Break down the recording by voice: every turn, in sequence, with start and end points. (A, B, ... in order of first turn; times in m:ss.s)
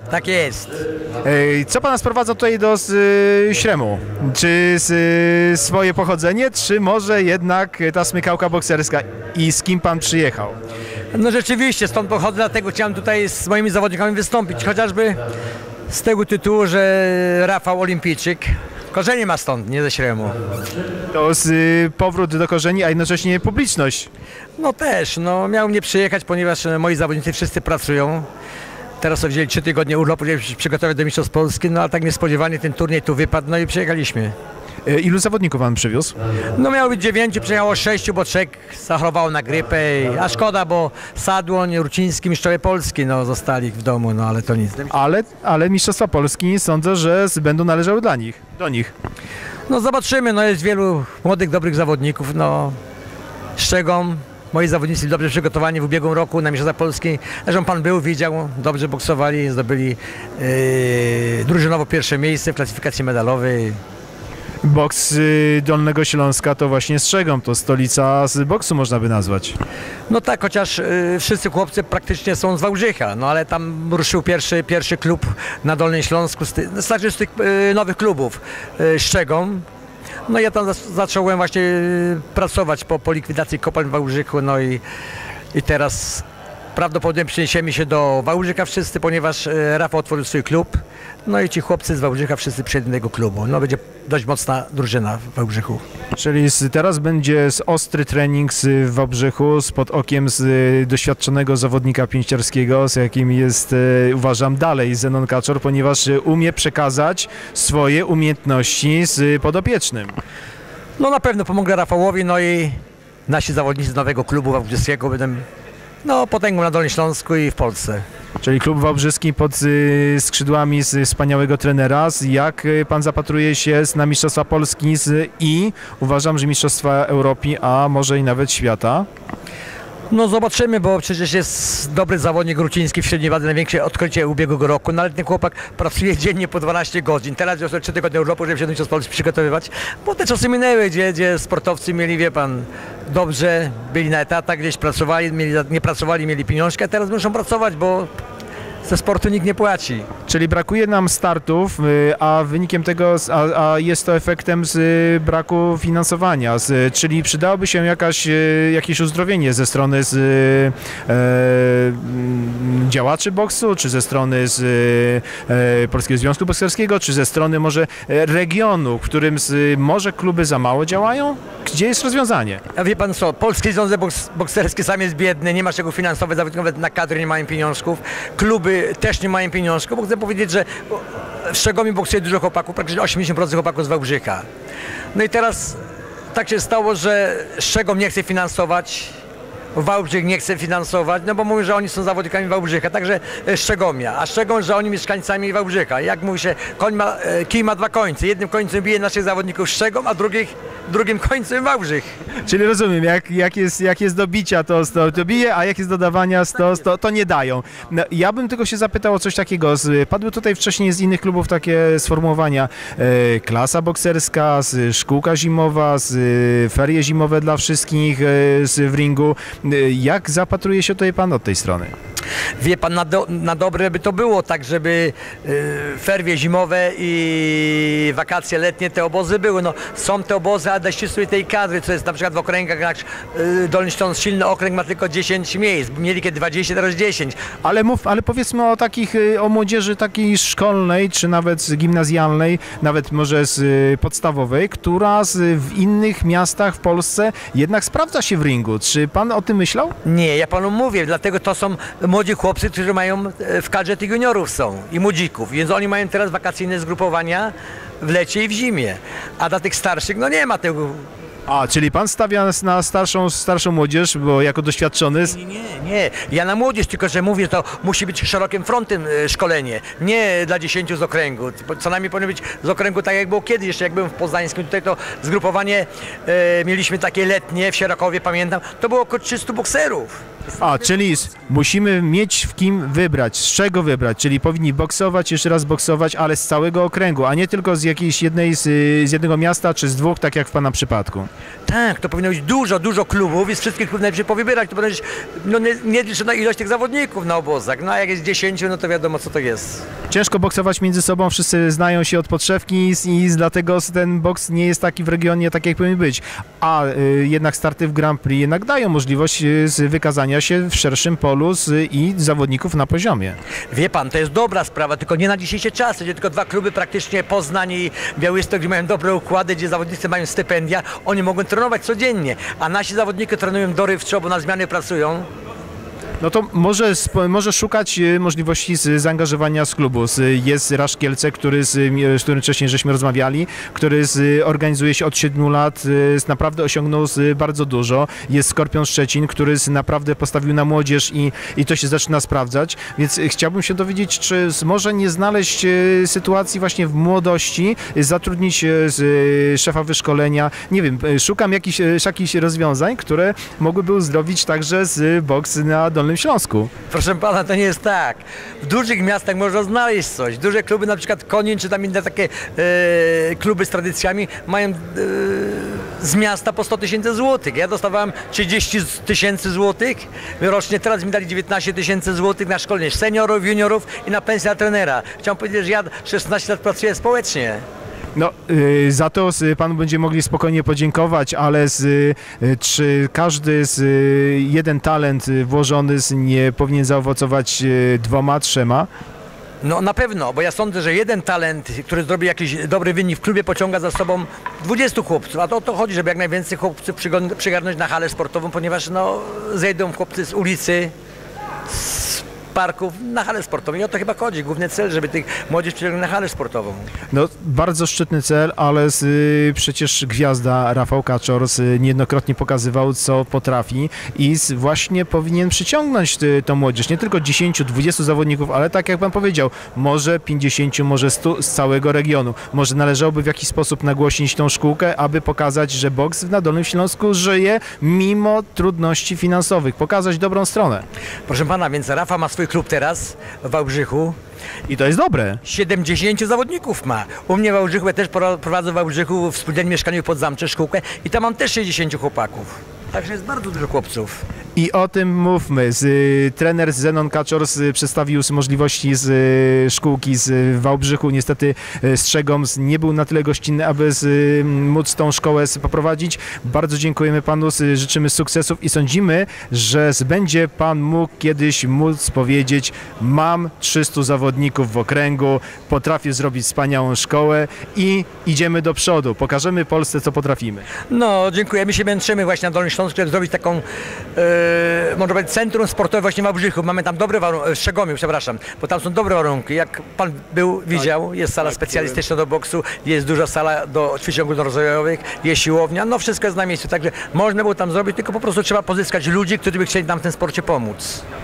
0:00.1-0:00.8 A
0:01.2-0:10.6 B
0:11.1-0:15.2 A
0:15.9-0:20.4 A
0:21.1-0:24.1 B
0:24.6-0:28.2 A
0:29.0-0:34.3 A
0:34.8-0:36.2 B
0:36.6-0:44.9 A
0:44.9-0:48.9 B
0:49.7-0:52.7 A
0:53.6-1:03.8 A
1:04.6-1:09.6 B
1:10.1-1:19.6 A
1:20.3-1:24.8 A
1:25.5-1:35.8 A
1:36.1-1:50.1 B
1:51.0-1:52.8 A
1:53.3-1:55.4 A
1:56.0-1:58.0 A
1:58.4-2:09.1 B
2:10.1-2:28.1 A
2:28.8-2:30.1 A
2:30.3-2:52.6 B
2:52.7-3:04.4 A
3:05.1-3:05.8 A
3:06.3-3:09.2 A
3:09.7-3:22.1 A
3:22.4-3:41.9 B
3:42.6-3:57.3 A
3:57.6-4:09.9 B
4:10.0-4:21.1 A
4:21.5-4:25.4 B
4:25.3-4:40.2 A
4:40.6-4:51.3 B
4:51.7-4:59.8 A
5:00.1-5:13.4 B
5:13.7-5:25.2 A
5:26.2-5:56.7 B
5:56.9-6:17.6 A
6:18.2-6:28.9 B
6:29.6-6:40.9 A
6:41.7-6:46.9 A
6:47.1-7:10.8 B
7:11.3-7:14.1 A
7:14.7-7:15.4 B
7:15.4-7:24.2 A
7:24.6-7:50.7 B
7:50.9-7:53.6 A
7:54.1-8:11.0 A
8:01.6-8:02.0 B